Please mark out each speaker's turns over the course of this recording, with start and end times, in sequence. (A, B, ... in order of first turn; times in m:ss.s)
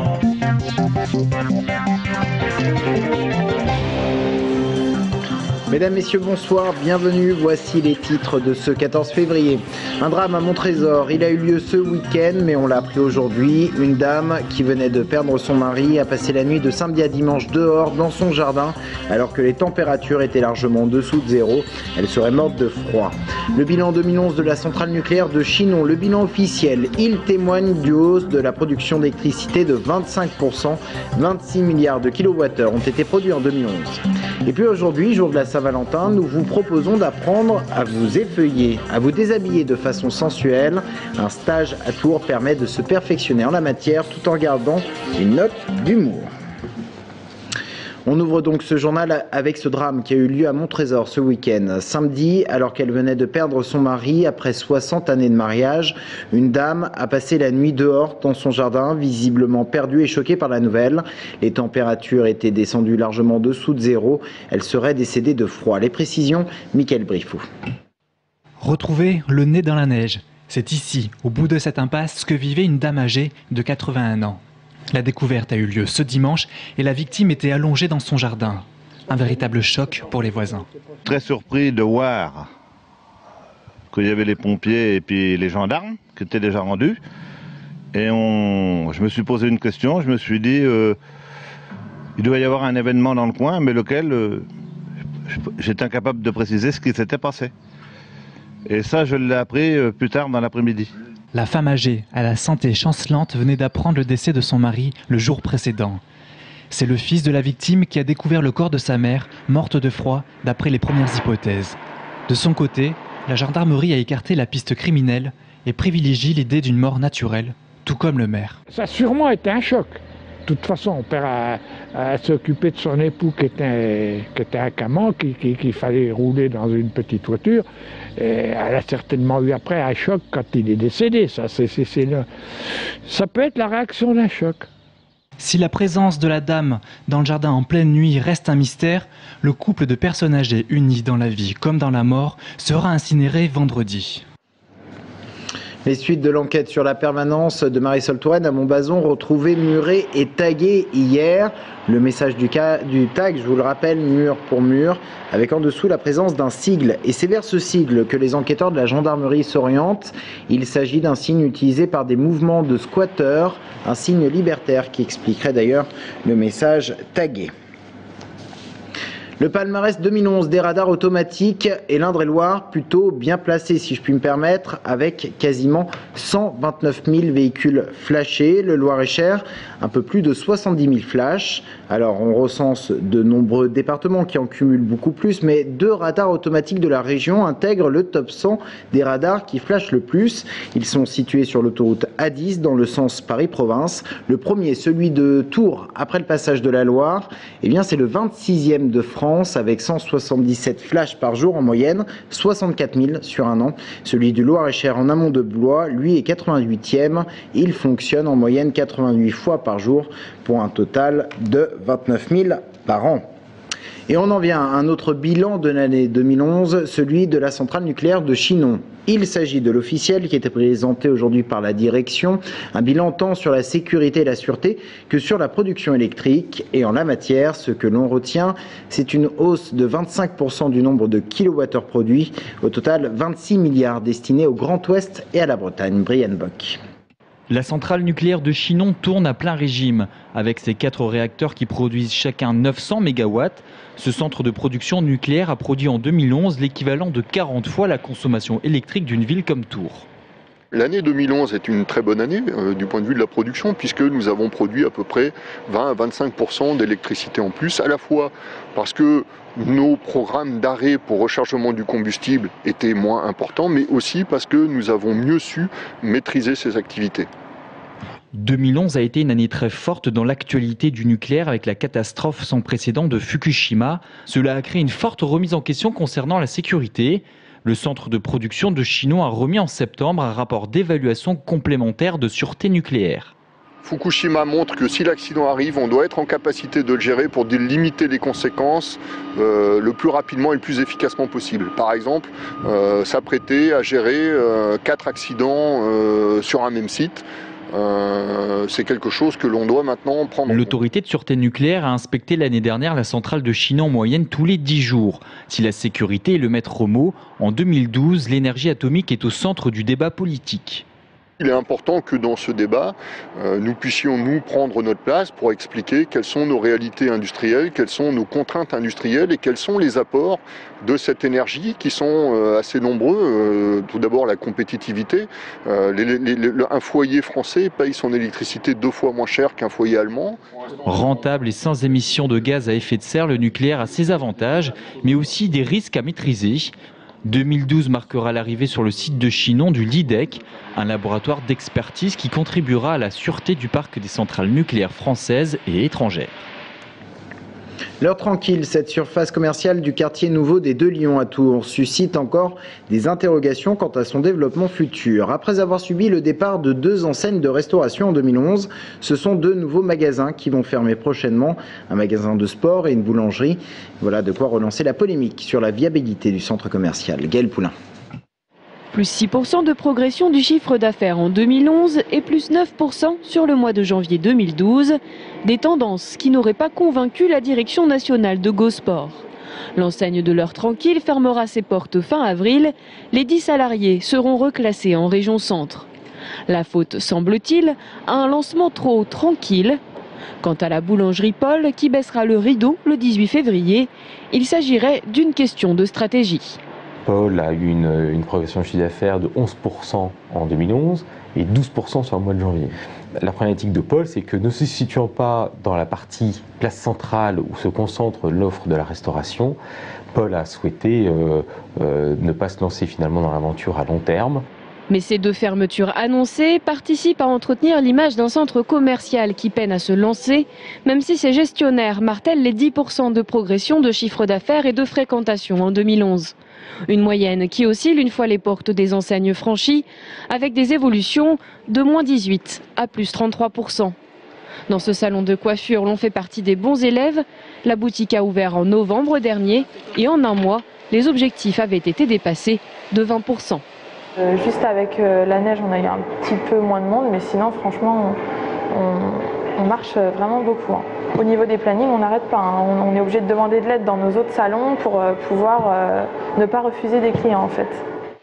0:05.7-0:46.3 A
0:48.0-1:07.4 A
1:08.6-1:14.4 B
1:14.9-1:20.6 B
1:21.0-1:22.5 C
1:23.9-1:27.0 C
1:27.9-1:31.0 C
1:32.2-1:34.4 C
1:35.3-1:37.5 C
1:38.7-1:40.9 C
1:41.3-1:46.0 B
1:46.7-1:58.6 B
1:58.7-2:12.2 D
2:13.0-2:14.6 D
2:15.4-2:24.2 B
2:25.8-2:47.5 A
2:49.4-3:33.2 A
3:34.1-3:56.8 A
3:57.5-4:10.1 B
4:10.7-4:27.3 E
4:28.3-4:43.3 B
4:43.8-5:00.7 E
5:00.5-5:10.8 B
5:11.4-5:30.4 E
5:30.8-5:36.7 B
5:37.2-5:46.3 B
5:48.0-6:07.7 A
6:09.0-6:15.0 F
6:15.5-6:19.2 F
6:19.9-6:25.9 F
6:26.5-6:29.8 F
6:30.5-6:36.6 F
6:37.0-6:49.6 G
6:50.1-6:54.4 G
6:55.0-7:06.3 F
7:06.9-7:13.9 F
7:14.7-7:23.6 F
7:24.2-7:28.2 H
7:28.7-7:37.8 H